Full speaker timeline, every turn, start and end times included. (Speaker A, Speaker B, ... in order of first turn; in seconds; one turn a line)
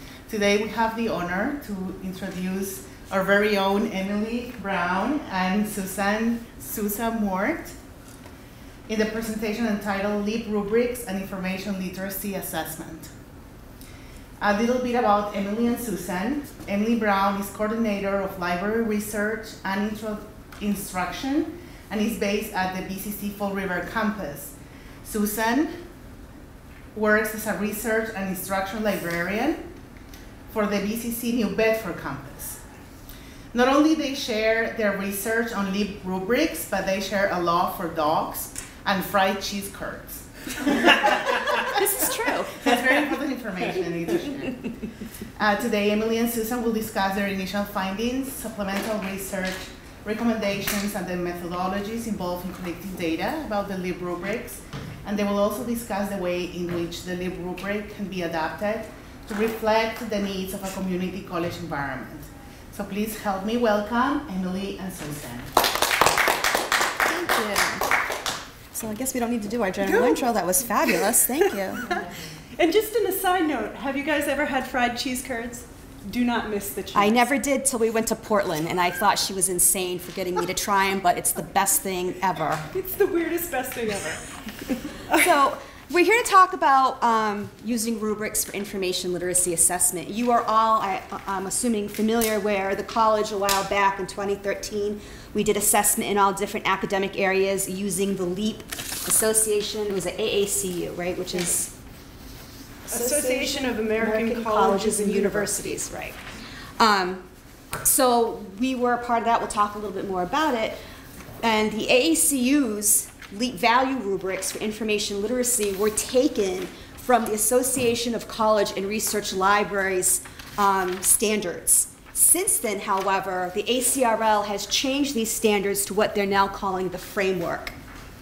Speaker A: 0.3-7.8
Speaker A: 8.9-13.1
Speaker A: 14.4-25.8
Speaker A: 26.9-29.7
Speaker A: 30.5-32.6
Speaker A: 33.5-44.8
Speaker B: 41.6-42.8
Speaker A: 45.4-65.5
Speaker B: 67.1-67.9
Speaker B: 68.7-72.0
Speaker C: 69.8-70.2
Speaker C: 72.6-77.3
Speaker B: 76.9-82.7
Speaker C: 82.7-84.2
Speaker C: 84.9-85.3
Speaker B: 85.1-101.7
Speaker B: 102.9-106.2
Speaker C: 102.9-105.9
Speaker B: 106.8-110.8
Speaker B: 111.4-127.8